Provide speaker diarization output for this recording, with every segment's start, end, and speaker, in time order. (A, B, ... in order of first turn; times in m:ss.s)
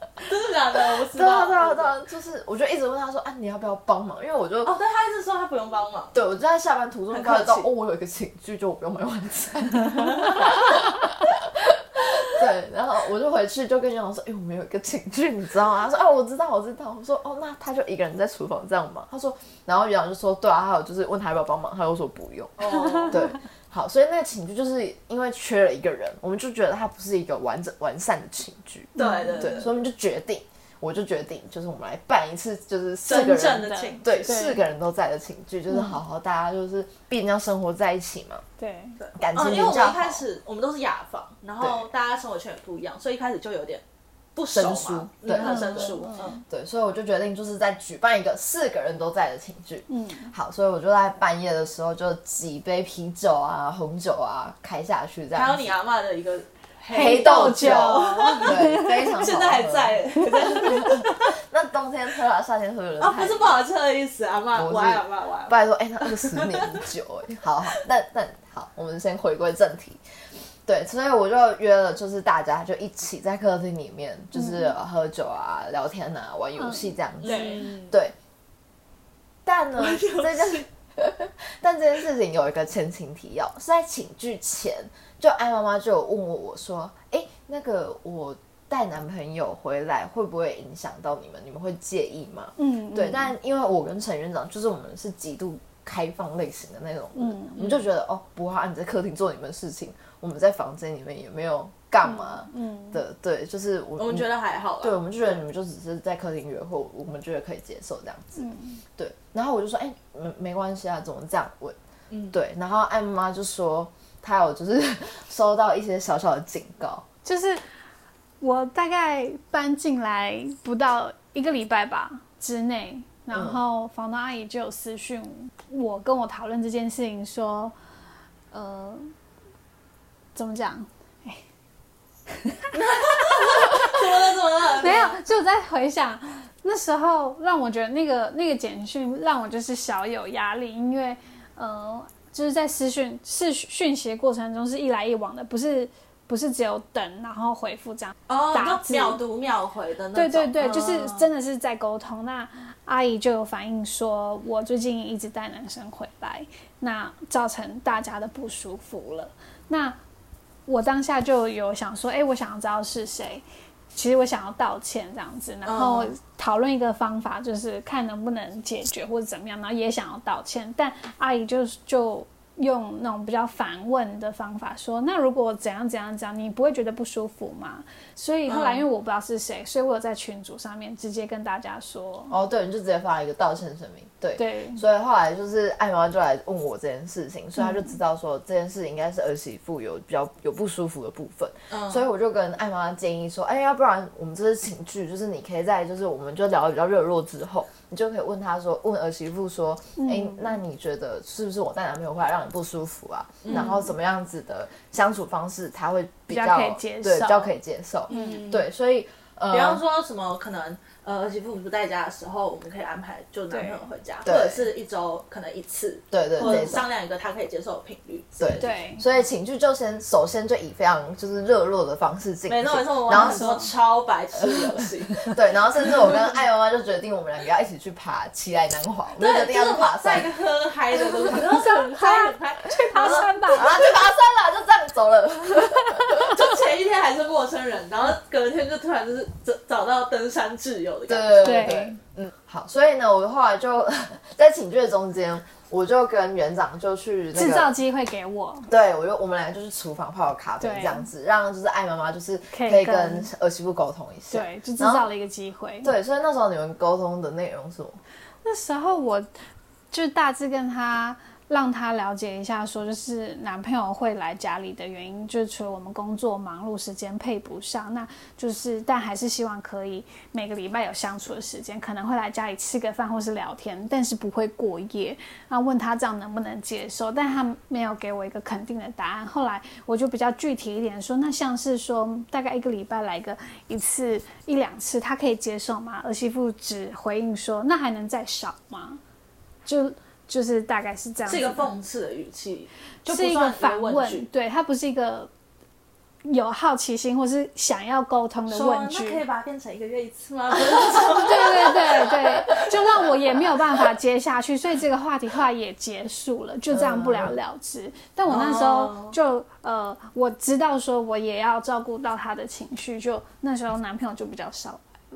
0:00.2-0:02.0 A
0:00.8-0:04.8 B
0:04.6-0:06.2 A
0:06.1-0:22.6 B
0:07.1-0:07.7 A
0:22.6-0:23.2 A
0:22.6-0:23.4 C
0:23.1-0:38.4 B
0:29.0-0:29.7 C
0:29.0-0:29.7 A
0:33.1-0:34.4 A
0:33.1-0:34.6 C
0:35.7-0:36.0 C
0:38.6-0:39.0 C
0:39.0-0:43.8 A
0:39.2-0:40.2 B
0:44.4-0:46.4 A
0:44.5-0:46.0 B
0:45.3-0:46.4 C
0:46.5-0:55.7 B
0:49.9-0:50.3 C
0:55.3-1:01.4 A
0:56.9-1:03.6 B
0:56.9-0:59.2 C
1:03.0-1:06.9 A
1:04.6-1:10.0 B
1:10.7-1:18.2 B
1:14.4-1:14.7 C
1:16.6-1:17.6 C
1:17.2-1:17.9 A
1:19.4-1:44.3 B
1:19.8-1:20.6 A
1:32.6-1:33.3 C
1:37.2-1:37.7 C
1:37.6-1:37.8 A
1:42.0-1:43.0 C
1:44.0-1:45.0 A
1:44.8-1:48.5 B
1:48.4-1:48.8 C
1:49.0-1:51.8 B
1:52.1-1:52.4 A
1:52.3-1:57.0 B
1:57.2-1:57.6 C
1:58.4-2:07.7 C
2:03.3-2:03.6 B
2:08.5-2:09.1 C
2:10.4-2:11.4 C
2:12.3-2:14.0 C
2:12.7-2:15.2 A
2:14.8-2:29.2 C
2:28.3-2:31.3 A
2:30.2-2:40.0 C
2:40.7-3:02.4 C
2:45.7-2:46.1 A
2:58.5-2:58.8 A
3:02.3-3:29.8 B
3:04.4-3:04.8 C
3:07.6-3:07.9 C
3:11.7-3:12.0 A
3:20.0-3:20.6 C
3:23.4-3:23.8 A
3:23.5-3:23.8 C
3:26.3-3:27.5 C
3:28.1-3:28.7 A
3:28.1-3:28.4 C
3:29.5-3:38.6 A
3:33.5-3:33.8 C
3:34.2-3:34.7 B
3:36.1-3:36.8 B
3:36.4-3:36.8 C
3:38.4-3:43.7 B
3:38.6-3:39.0 C
3:42.5-3:45.4 A
3:43.1-3:43.7 C
3:44.4-3:50.3 B
3:49.2-3:53.6 A
3:51.0-3:53.8 C
3:52.9-3:56.4 B
3:55.7-3:56.2 C
3:56.2-4:01.8 A
4:01.1-4:07.8 B
4:01.4-4:02.0 C
4:07.3-4:08.7 C
4:08.7-4:15.1 B
4:10.6-4:11.1 C
4:12.5-4:13.3 C
4:14.3-4:15.9 C
4:15.8-4:18.0 B
4:18.4-4:19.3 C
4:19.9-4:49.0 C
4:49.6-4:51.7 C
4:51.3-4:54.3 A
4:53.1-4:55.3 C
4:56.2-4:59.2 C
4:58.5-5:03.1 A
5:00.9-5:15.0 C
5:06.7-5:07.4 B
5:08.3-5:09.2 A